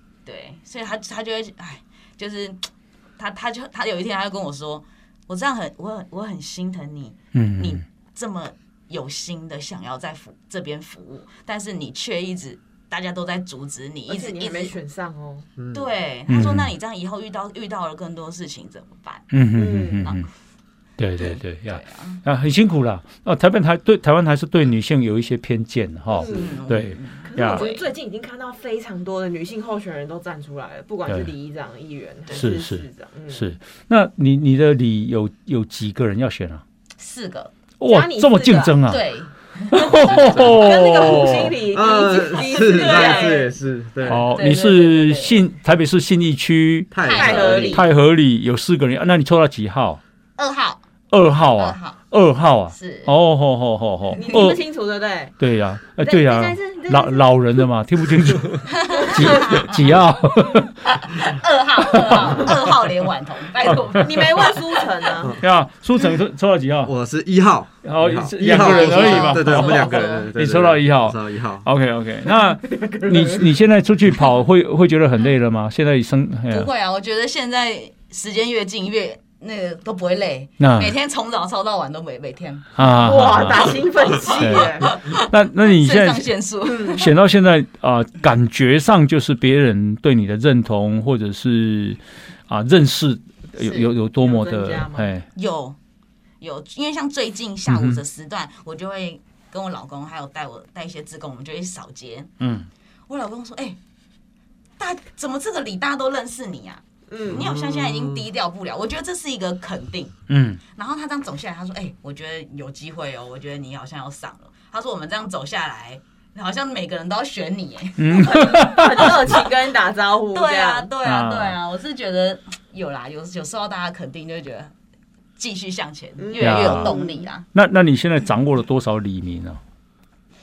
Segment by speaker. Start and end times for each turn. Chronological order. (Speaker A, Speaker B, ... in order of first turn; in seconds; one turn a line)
Speaker A: 0.2-14.7
Speaker B: 7.3-7.8
Speaker C: 14.1-15.5
Speaker D: 15.6-15.9
Speaker A: 15.7-19.3
Speaker B: 16.3-16.7
Speaker B: 19.3-20.3
Speaker C: 19.5-20.1
Speaker A: 20.0-20.3
Speaker B: 21.0-27.7
Speaker A: 21.2-22.2
Speaker C: 26.1-26.6
Speaker A: 26.2-27.9
Speaker C: 27.2-33.5
Speaker B: 32.3-36.6
Speaker A: 37.0-37.5
Speaker B: 37.8-39.0
Speaker C: 37.9-38.7
Speaker A: 38.5-43.5
Speaker B: 39.7-41.5
Speaker C: 40.0-43.5
Speaker D: 41.7-44.3
Speaker A: 44.0-45.4
Speaker B: 44.0-46.9
Speaker D: 46.9-47.8
Speaker A: 47.0-47.8
Speaker C: 47.1-47.8
Speaker B: 47.6-50.0
Speaker A: 50.4-50.8
Speaker B: 51.1-54.6
Speaker A: 51.5-52.0
Speaker A: 52.7-53.1
Speaker A: 54.1-54.5
Speaker C: 54.2-55.3
Speaker B: 55.4-61.2
Speaker C: 56.0-57.6
Speaker A: 58.7-65.3
Speaker C: 58.9-59.6
Speaker B: 61.9-62.7
Speaker B: 63.7-64.0
Speaker C: 63.9-65.4
Speaker B: 65.4-66.9
Speaker D: 66.8-71.7
Speaker B: 67.8-76.7
Speaker A: 68.4-70.3
Speaker C: 73.0-73.3
Speaker A: 76.5-87.1
Speaker B: 80.6-80.9
Speaker B: 82.8-83.8
Speaker C: 82.8-84.9
Speaker B: 84.4-86.3
Speaker C: 86.7-87.0
Speaker B: 86.9-95.3
Speaker A: 93.6-93.9
Speaker C: 94.2-95.1
Speaker A: 95.3-95.8
Speaker A: 96.4-102.3
Speaker B: 97.7-98.0
Speaker B: 102.4-102.7
Speaker A: 103.1-103.8
Speaker A: 104.8-110.1
Speaker C: 107.1-107.4
Speaker D: 107.2-108.3
Speaker B: 110.3-110.6
Speaker A: 110.7-119.4
Speaker B: 118.0-119.1
Speaker C: 118.3-120.9
Speaker A: 120.3-124.7
Speaker B: 121.0-121.6
Speaker A: 125.4-127.5
Speaker C: 126.2-127.3
Speaker B: 126.4-127.0
Speaker B: 127.5-129.6